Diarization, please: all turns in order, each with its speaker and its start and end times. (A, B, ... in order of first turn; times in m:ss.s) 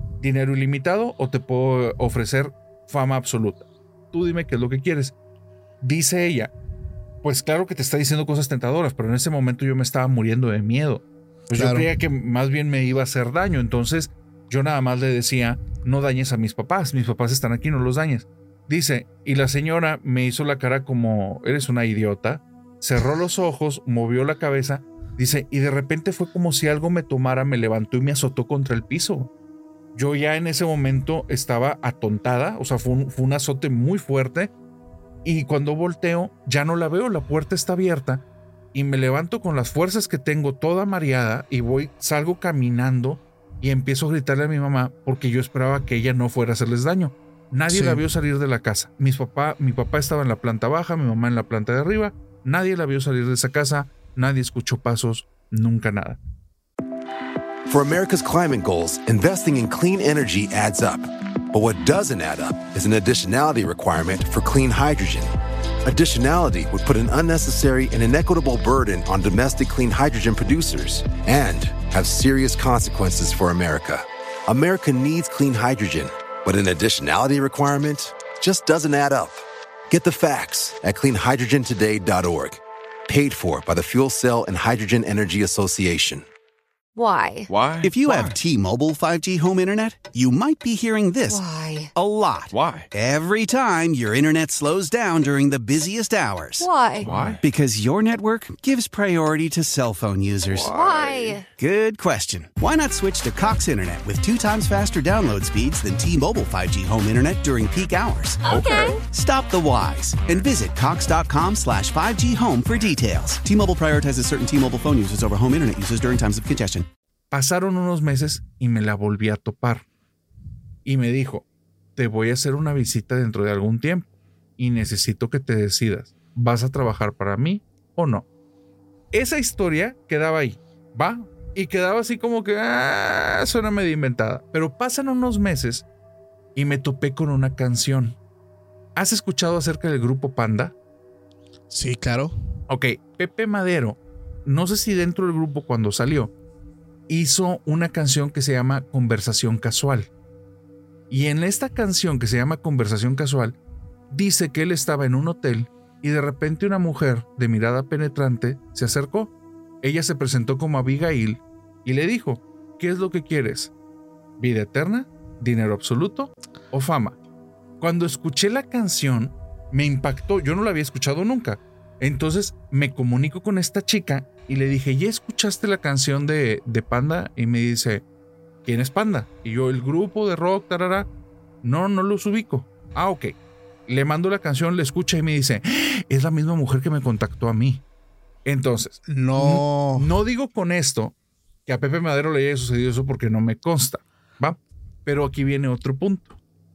0:00.2-0:05.1 A
0:05.8-0:06.5 A
0:07.2-0:29.3 A
0:11.5-0:11.9 B
0:30.0-0:34.5 A
0:35.2-0:56.2 A
0:47.7-0:48.0 B
0:57.7-1:05.3 C
1:05.8-1:26.3 C
1:27.0-1:27.5 D
1:27.5-1:28.4 E
1:27.8-1:31.4 F
1:31.3-1:31.9 D
1:32.0-1:36.7 F
1:32.5-1:32.9 E
1:36.6-1:37.1 D
1:37.0-1:37.4 E
1:37.4-1:40.8 F
1:40.5-1:41.4 E
1:40.7-1:41.4 D
1:41.6-1:48.5 F
1:48.5-1:49.0 E
1:48.5-1:49.0 D
1:49.1-1:56.9 F
1:57.3-1:59.9 A
2:00.8-2:01.4 A
2:02.0-2:08.3 A
2:09.1-2:15.9 A
2:16.6-2:18.2 A
2:19.0-2:20.7 A
2:21.7-2:22.4 B
2:22.7-2:26.3 A
2:27.1-2:30.1 A
2:31.1-2:33.6 A
2:34.1-2:39.3 A
2:39.8-2:43.7 A
2:44.4-2:47.2 A
2:47.8-2:58.0 A
2:58.6-3:01.1 A
3:01.6-3:03.3 A
3:03.9-3:07.8 A
3:08.4-3:11.1 A
3:09.1-3:10.1 B
3:11.7-3:16.4 A